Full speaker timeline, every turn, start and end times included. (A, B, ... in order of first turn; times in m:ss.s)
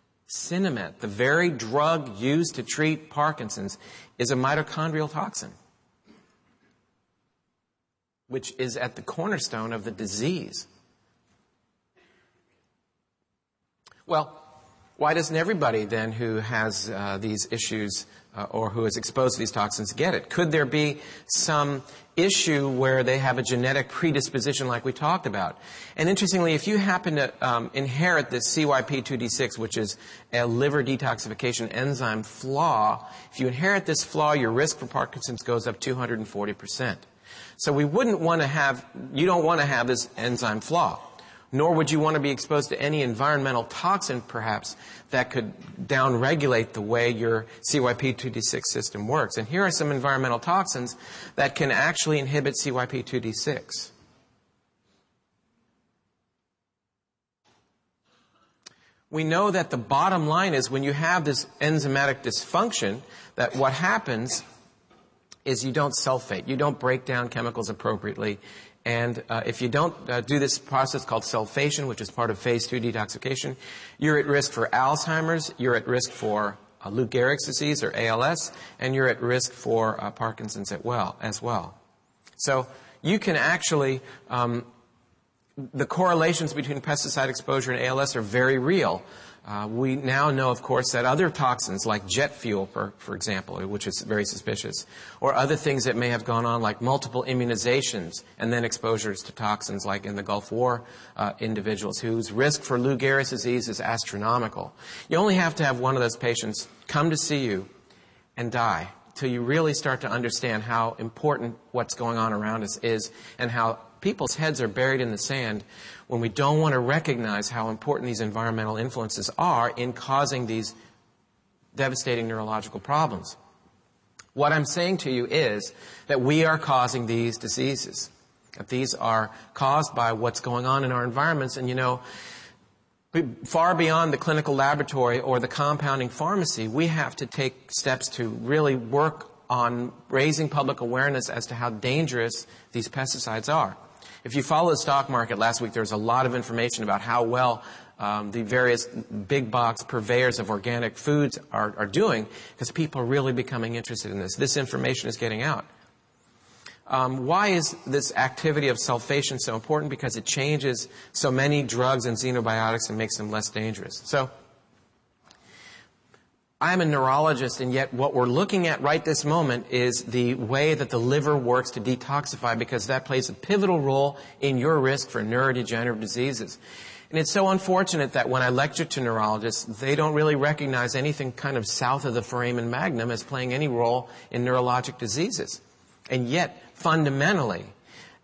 0:00.3-0:05.6 A
0:08.3-0:10.7 A
0:14.1-0:14.5 A
0:15.0-0:37.0 A
0:37.6-0:53.9 A
0:59.1-1:04.4 A
1:05.4-1:21.8 A
1:22.4-1:24.7 A
1:25.6-1:47.7 A
1:48.4-2:00.8 A
2:01.7-2:03.4 A
2:04.4-2:12.0 A
2:13.1-2:35.7 A
2:36.9-2:44.3 A
2:46.6-2:56.6 A
2:57.1-3:07.7 A